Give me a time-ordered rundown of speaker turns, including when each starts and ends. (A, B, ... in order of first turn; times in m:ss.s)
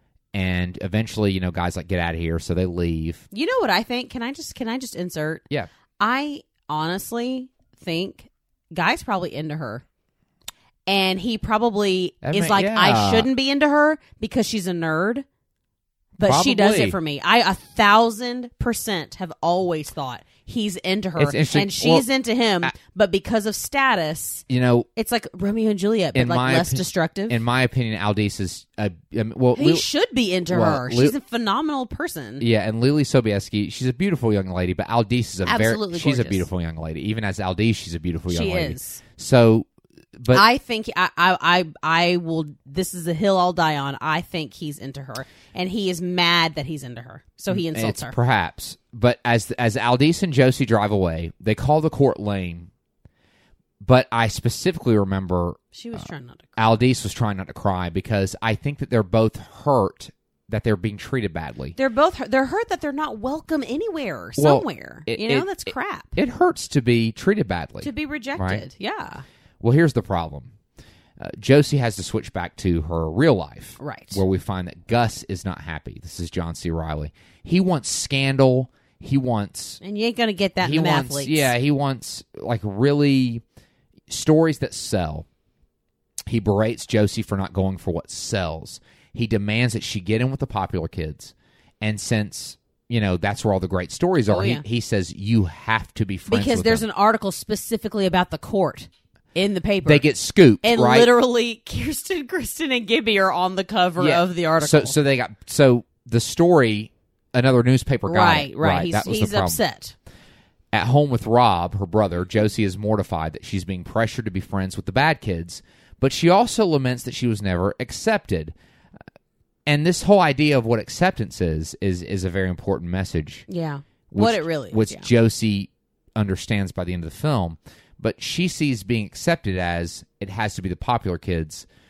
0:00.3-0:03.3 A
0:03.3-0:05.4 B
0:06.0-0:09.8 B
0:10.9-0:15.2 B
0:12.2-0:13.3 A
0:16.2-0:17.0 A
0:16.2-0:27.4 B
0:21.2-0:22.1 A
0:24.5-0:24.9 A
0:26.1-0:29.8 A
0:29.5-0:32.4 B
0:30.5-0:31.2 A
0:32.4-0:40.4 A
0:35.4-0:36.4 B
0:38.3-0:39.0 B
0:40.3-0:48.2 B
0:47.5-0:52.7 A
0:53.8-0:56.0 A
0:55.7-0:56.6 B
0:56.6-1:01.8 A
1:01.8-1:06.1 B
1:04.4-1:08.6 A
1:07.8-1:09.2 B
1:09.6-1:10.5 A
1:11.2-1:19.8 A
1:13.8-1:14.2 B
1:19.8-1:21.5 B
1:20.6-1:23.4 A
1:24.1-1:25.2 A
1:26.3-1:36.8 A
1:34.3-1:34.6 B
1:36.3-1:40.0 B
1:39.8-1:41.1 A
1:40.6-1:45.0 B
1:44.0-1:49.6 A
1:48.0-1:49.9 B
1:50.7-1:58.5 A
1:59.6-2:03.4 A
2:03.5-2:05.1 B
2:04.1-2:11.6 A